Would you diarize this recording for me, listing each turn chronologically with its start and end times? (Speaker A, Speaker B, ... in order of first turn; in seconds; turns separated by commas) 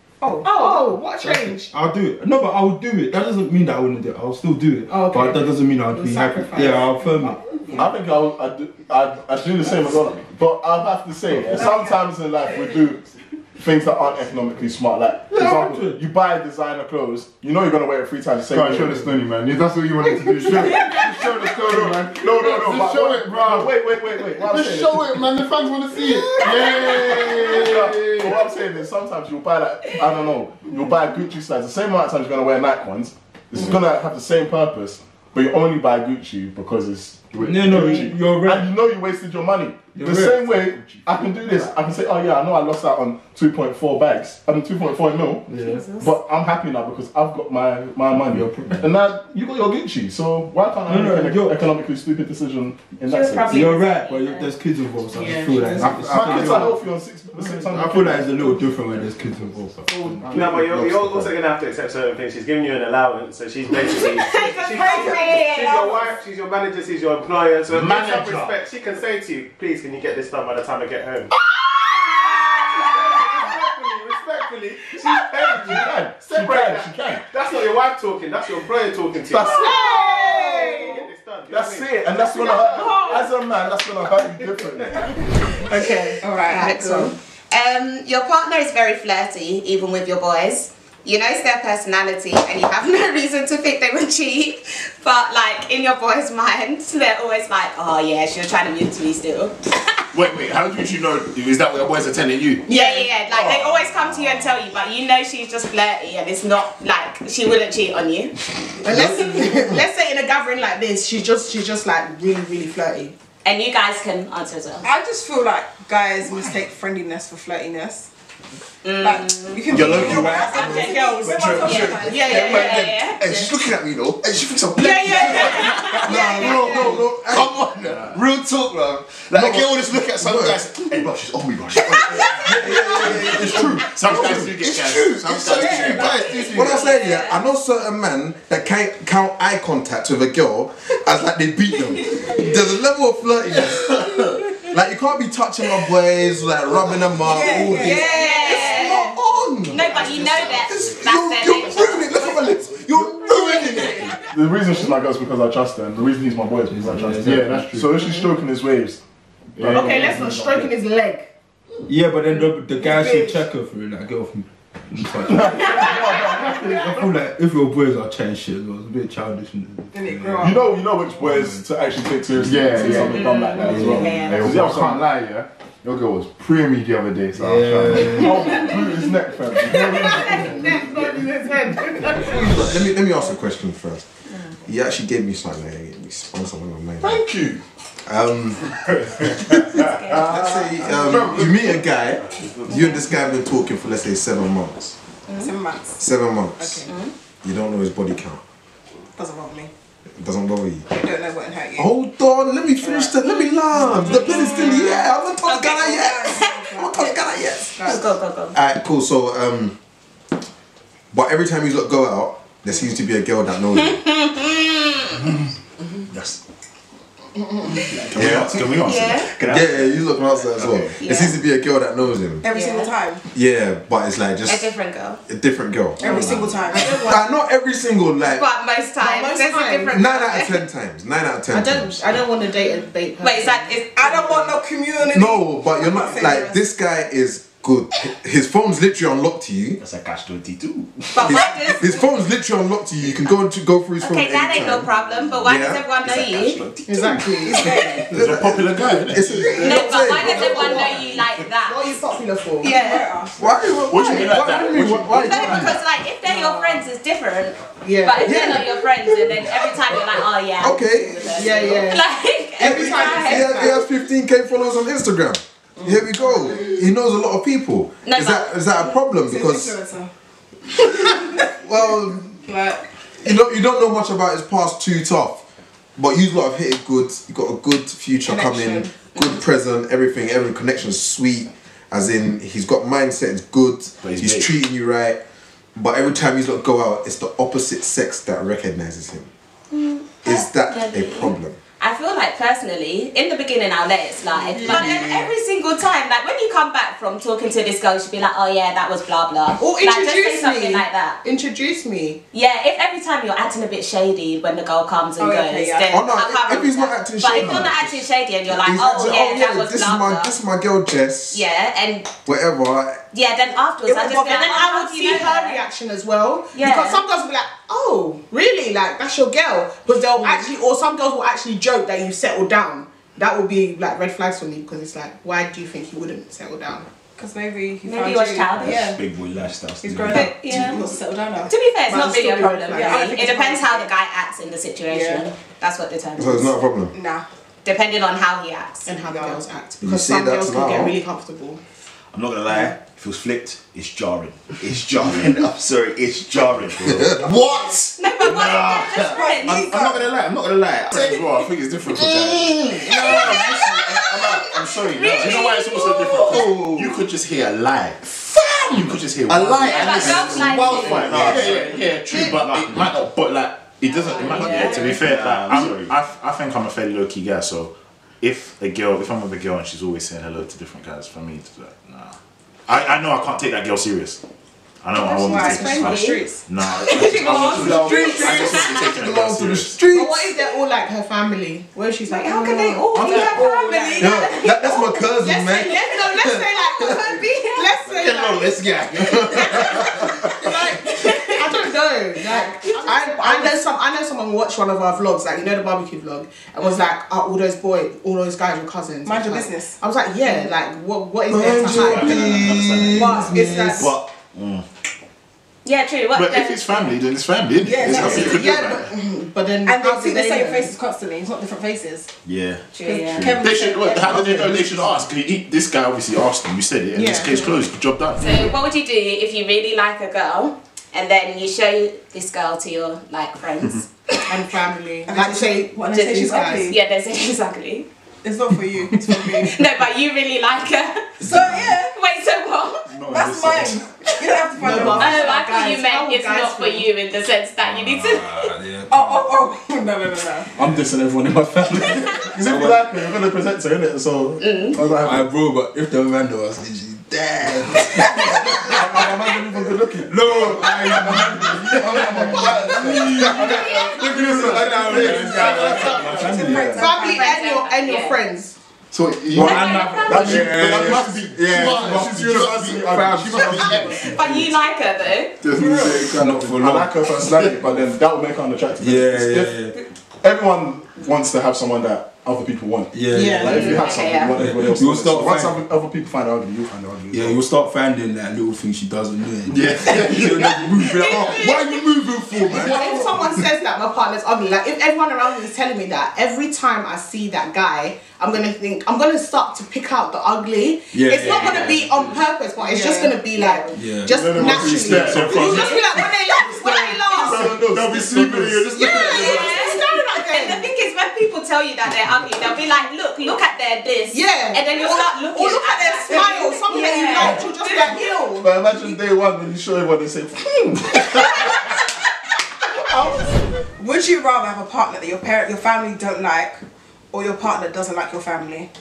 Speaker A: 0.2-0.9, Speaker B: 0.4-1.7, Speaker C: 1.2-7.4, Speaker B: 4.9-7.7, Speaker D: 7.7-19.2, Speaker A: 11.6-11.9, Speaker C: 15.3-16.0, Speaker E: 18.5-28.5, Speaker B: 20.5-20.7, Speaker F: 20.5-21.3, Speaker D: 21.6-25.4, Speaker D: 26.4-45.5, Speaker E: 37.4-37.9, Speaker C: 37.4-38.7, Speaker C: 39.9-41.0, Speaker C: 45.5-45.9, Speaker F: 45.7-46.1, Speaker D: 46.0-53.7, Speaker C: 48.3-48.9, Speaker C: 50.9-51.6, Speaker F: 53.0-54.5, Speaker C: 53.5-56.8, Speaker B: 55.1-56.0, Speaker E: 55.8-56.8, Speaker D: 56.1-58.6, Speaker C: 57.3-60.4, Speaker E: 60.1-61.4, Speaker G: 60.2-71.3, Speaker B: 64.3-66.1, Speaker F: 64.5-65.8, Speaker H: 67.7-68.5, Speaker G: 72.7-82.2, Speaker D: 75.0-77.2, Speaker D: 79.3-79.8, Speaker B: 79.5-81.0, Speaker F: 80.0-80.3, Speaker A: 80.1-81.0, Speaker D: 81.5-85.3, Speaker F: 82.7-83.3, Speaker B: 85.5-87.1, Speaker A: 86.2-87.1, Speaker F: 86.4-99.6, Speaker H: 100.1-102.7, Speaker F: 102.7-108.4, Speaker B: 102.7-103.2, Speaker H: 103.3-104.6, Speaker B: 108.8-113.2, Speaker I: 108.8-109.8, Speaker F: 113.4-114.8, Speaker A: 114.8-118.1, Speaker F: 118.8-123.5, Speaker A: 119.0-122.7, Speaker I: 119.8-120.2, Speaker C: 119.8-120.2, Speaker J: 119.8-120.3, Speaker B: 120.4-123.1, Speaker J: 121.4-136.9, Speaker F: 124.8-127.0, Speaker B: 124.8-127.0, Speaker I: 126.0-127.6, Speaker H: 127.8-128.2, Speaker I: 129.3-130.7, Speaker F: 132.0-132.5, Speaker I: 132.4-134.6, Speaker H: 133.9-136.2, Speaker A: 135.4-136.7, Speaker F: 136.3-137.4, Speaker I: 136.5-154.1, Speaker J: 143.5-144.4, Speaker A: 147.2-149.1, Speaker F: 147.5-154.3, Speaker B: 147.9-148.7, Speaker J: 150.0-150.6, Speaker D: 154.2-159.0, Speaker C: 156.7-157.9, Speaker E: 157.2-157.7, Speaker E: 159.6-160.2, Speaker D: 159.6-160.7, Speaker B: 159.7-161.3, Speaker C: 161.9-171.6, Speaker A: 162.7-163.5, Speaker D: 165.2-167.0, Speaker A: 169.9-170.8, Speaker D: 170.4-175.1, Speaker E: 172.4-178.3, Speaker C: 172.4-173.0, Speaker F: 172.9-174.6, Speaker C: 173.7-174.2, Speaker C: 177.4-178.5, Speaker D: 178.1-180.8, Speaker B: 179.7-183.0, Speaker I: 182.1-184.1, Speaker I: 184.7-187.2, Speaker D: 187.0-187.6, Speaker I: 188.1-195.0, Speaker F: 189.8-190.7, Speaker E: 190.0-191.9, Speaker G: 192.1-192.9, Speaker F: 192.7-193.0, Speaker F: 195.3-195.5, Speaker A: 195.4-196.1, Speaker I: 196.0-196.8, Speaker A: 196.6-196.9, Speaker F: 196.8-197.1, Speaker I: 197.4-198.4, Speaker A: 199.2-199.7, Speaker I: 200.2-200.9, Speaker A: 200.9-201.9, Speaker I: 201.8-207.8, Speaker A: 202.8-208.1, Speaker F: 203.9-207.1, Speaker F: 207.8-208.6, Speaker I: 208.5-209.8, Speaker I: 211.1-214.0, Speaker F: 213.7-215.3, Speaker J: 216.1-216.4, Speaker B: 217.4-217.8, Speaker J: 217.8-221.1, Speaker H: 218.1-219.3, Speaker I: 218.2-218.7, Speaker F: 218.8-219.3, Speaker I: 219.4-222.4, Speaker F: 221.0-221.4, Speaker A: 222.4-223.2, Speaker F: 222.5-222.9, Speaker I: 223.3-224.7, Speaker F: 224.4-225.2, Speaker I: 225.3-228.4, Speaker A: 226.0-227.1, Speaker J: 226.0-226.6, Speaker B: 226.1-227.3, Speaker F: 228.2-230.6, Speaker B: 229.0-230.0, Speaker I: 229.9-232.2, Speaker B: 231.5-233.8, Speaker F: 233.2-234.6, Speaker A: 234.0-236.6, Speaker I: 235.0-239.8, Speaker J: 239.8-241.4, Speaker F: 241.1-242.1, Speaker I: 241.2-244.9, Speaker F: 244.0-246.6, Speaker I: 245.4-245.9, Speaker J: 246.0-247.2, Speaker B: 246.8-247.9, Speaker A: 247.4-248.2, Speaker I: 248.1-250.9, Speaker H: 248.1-249.7, Speaker F: 249.5-251.8, Speaker B: 249.6-252.8, Speaker F: 252.6-253.1, Speaker A: 252.6-253.4, Speaker I: 253.4-255.8, Speaker H: 253.9-255.7, Speaker F: 255.1-263.7, Speaker B: 256.3-256.8, Speaker B: 257.8-258.7, Speaker I: 258.2-258.8, Speaker I: 260.6-261.9, Speaker B: 261.3-263.8, Speaker I: 263.1-269.8, Speaker F: 268.0-268.9, Speaker A: 269.1-270.1, Speaker I: 271.4-272.4, Speaker A: 272.4-272.9, Speaker I: 273.2-275.4, Speaker I: 276.0-285.2, Speaker A: 278.2-279.0, Speaker H: 284.0-284.5, Speaker I: 285.8-289.3, Speaker F: 289.7-301.2, Speaker I: 290.2-291.6, Speaker A: 294.4-295.3, Speaker B: 294.6-295.1, Speaker B: 299.6-302.2, Speaker F: 302.3-310.3, Speaker A: 305.2-306.1, Speaker I: 305.9-311.5, Speaker F: 311.3-312.2, Speaker I: 312.2-313.0, Speaker F: 313.1-315.6, Speaker B: 313.9-326.9, Speaker A: 313.9-314.4, Speaker F: 316.5-317.0, Speaker A: 320.2-320.5, Speaker A: 327.2-329.0, Speaker F: 327.8-329.0, Speaker J: 328.6-330.7, Speaker A: 329.8-331.5, Speaker F: 330.1-336.5, Speaker B: 331.9-333.1, Speaker A: 332.7-333.9, Speaker A: 334.9-335.3, Speaker I: 336.2-336.9, Speaker A: 336.9-337.3, Speaker F: 337.6-339.0, Speaker B: 338.9-341.6, Speaker A: 339.1-339.4, Speaker I: 339.8-341.0, Speaker J: 342.1-357.1, Speaker H: 345.0-345.3, Speaker H: 346.4-347.1, Speaker I: 346.8-347.4, Speaker F: 348.0-349.7, Speaker A: 349.0-350.1, Speaker H: 350.9-353.4, Speaker F: 352.9-356.3, Speaker H: 355.0-358.1, Speaker J: 358.2-363.1, Speaker H: 358.7-372.2, Speaker F: 359.6-361.4, Speaker F: 363.8-365.1, Speaker J: 364.4-365.9, Speaker H: 372.7-374.2, Speaker H: 374.8-379.8, Speaker A: 374.9-376.4, Speaker F: 375.1-378.9, Speaker I: 377.5-380.4, Speaker J: 377.5-377.9, Speaker B: 379.9-383.2, Speaker F: 382.1-385.1, Speaker A: 382.9-384.7, Speaker I: 384.0-386.9, Speaker B: 385.2-404.0, Speaker F: 386.8-387.8, Speaker J: 387.8-390.5, Speaker I: 389.0-389.9, Speaker F: 390.9-391.7, Speaker F: 392.2-393.4, Speaker A: 392.9-393.6, Speaker A: 399.1-400.5, Speaker I: 401.3-403.9, Speaker J: 401.4-404.7, Speaker F: 405.6-406.9, Speaker H: 406.1-408.9, Speaker A: 407.6-408.4, Speaker B: 407.8-410.7, Speaker J: 407.9-408.3, Speaker A: 409.7-412.1, Speaker J: 412.2-413.4, Speaker F: 412.7-413.5, Speaker A: 412.8-414.2, Speaker H: 413.4-418.5, Speaker D: 414.0-415.0, Speaker B: 416.9-417.6, Speaker F: 418.2-424.4, Speaker B: 424.3-426.7, Speaker A: 425.1-426.8, Speaker F: 425.8-427.9, Speaker A: 428.2-429.8, Speaker F: 429.3-432.9, Speaker A: 431.2-432.0, Speaker C: 431.3-431.7, Speaker A: 433.1-435.4, Speaker E: 433.1-433.6, Speaker F: 434.3-438.5, Speaker B: 434.6-436.9, Speaker C: 437.7-439.4, Speaker A: 438.9-440.5, Speaker D: 440.6-445.3, Speaker C: 441.6-442.8, Speaker F: 444.4-444.8, Speaker C: 445.0-449.1, Speaker I: 448.3-449.6, Speaker D: 448.6-450.1, Speaker C: 450.0-456.8, Speaker I: 450.1-450.9, Speaker I: 451.4-454.9, Speaker D: 451.9-456.3, Speaker E: 453.0-456.3, Speaker A: 455.9-457.2, Speaker B: 456.2-458.6, Speaker F: 456.7-458.2, Speaker E: 458.9-464.3, Speaker F: 459.3-460.6, Speaker C: 459.3-462.2, Speaker D: 460.1-464.0, Speaker J: 461.6-462.0, Speaker C: 463.3-463.9, Speaker J: 463.3-464.0, Speaker F: 463.9-465.4, Speaker E: 465.4-466.5, Speaker D: 465.5-469.7, Speaker C: 466.2-467.1, Speaker E: 467.3-467.8, Speaker C: 468.8-469.7, Speaker D: 470.2-477.4, Speaker C: 472.9-473.8, Speaker A: 473.1-473.9, Speaker F: 473.4-474.4, Speaker C: 474.3-475.6, Speaker C: 477.1-483.1, Speaker D: 479.6-480.3, Speaker F: 480.9-481.9, Speaker D: 482.5-483.2, Speaker B: 482.5-497.5, Speaker C: 490.9-492.2, Speaker A: 492.6-493.2, Speaker F: 493.3-493.9, Speaker C: 493.7-495.6, Speaker E: 494.1-499.6, Speaker D: 494.9-495.4, Speaker F: 495.4-497.4, Speaker D: 497.3-498.7, Speaker B: 498.7-500.7, Speaker F: 498.8-508.0, Speaker B: 504.1-504.7, Speaker A: 504.7-507.5, Speaker B: 506.1-508.5, Speaker D: 508.4-511.3, Speaker A: 513.0-516.6, Speaker A: 517.1-518.7